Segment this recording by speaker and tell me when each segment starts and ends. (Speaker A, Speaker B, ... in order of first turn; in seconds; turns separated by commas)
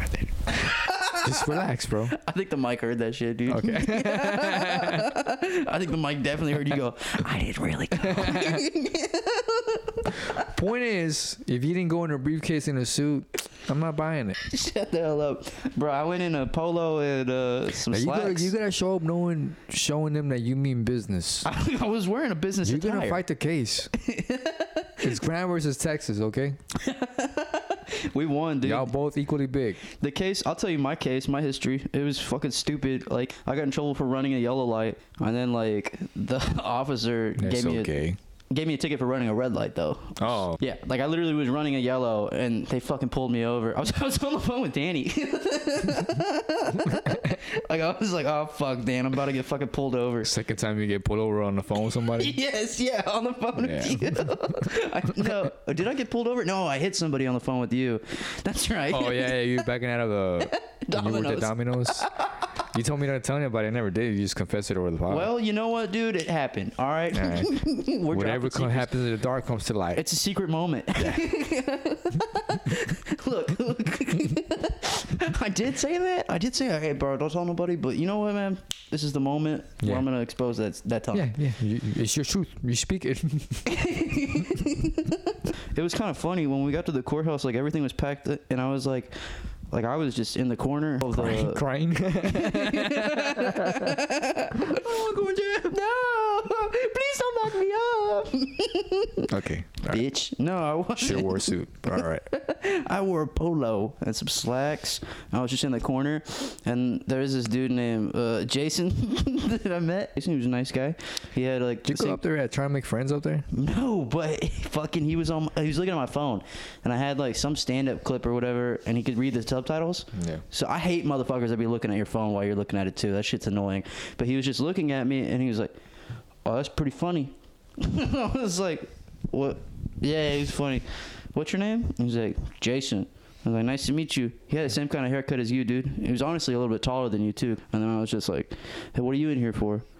Speaker A: 0.5-10.5, Speaker B: 1.1-2.1, Speaker B: 3.5-5.1, Speaker B: 8.1-8.6, Speaker B: 10.3-14.4, Speaker A: 14.4-18.5, Speaker B: 17.9-21.5, Speaker A: 21.4-23.2, Speaker B: 22.6-23.9, Speaker A: 23.9-25.1, Speaker B: 25.0-26.6, Speaker A: 26.7-28.9, Speaker B: 28.6-29.8, Speaker A: 29.9-50.3, Speaker B: 37.4-38.2, Speaker B: 40.2-40.6, Speaker B: 50.2-52.4, Speaker A: 52.0-59.6, Speaker B: 53.5-54.5, Speaker B: 58.9-62.1, Speaker A: 60.4-62.4, Speaker B: 62.6-65.3, Speaker A: 65.1-69.0, Speaker B: 67.1-70.0, Speaker A: 69.9-81.3, Speaker B: 71.0-71.2, Speaker B: 79.8-80.1, Speaker B: 81.1-83.7, Speaker A: 83.7-99.3, Speaker B: 91.1-94.0, Speaker B: 99.3-100.0, Speaker A: 99.8-112.2, Speaker B: 101.0-102.2, Speaker B: 111.8-113.5, Speaker A: 113.5-125.7, Speaker B: 120.1-120.4, Speaker A: 126.4-139.8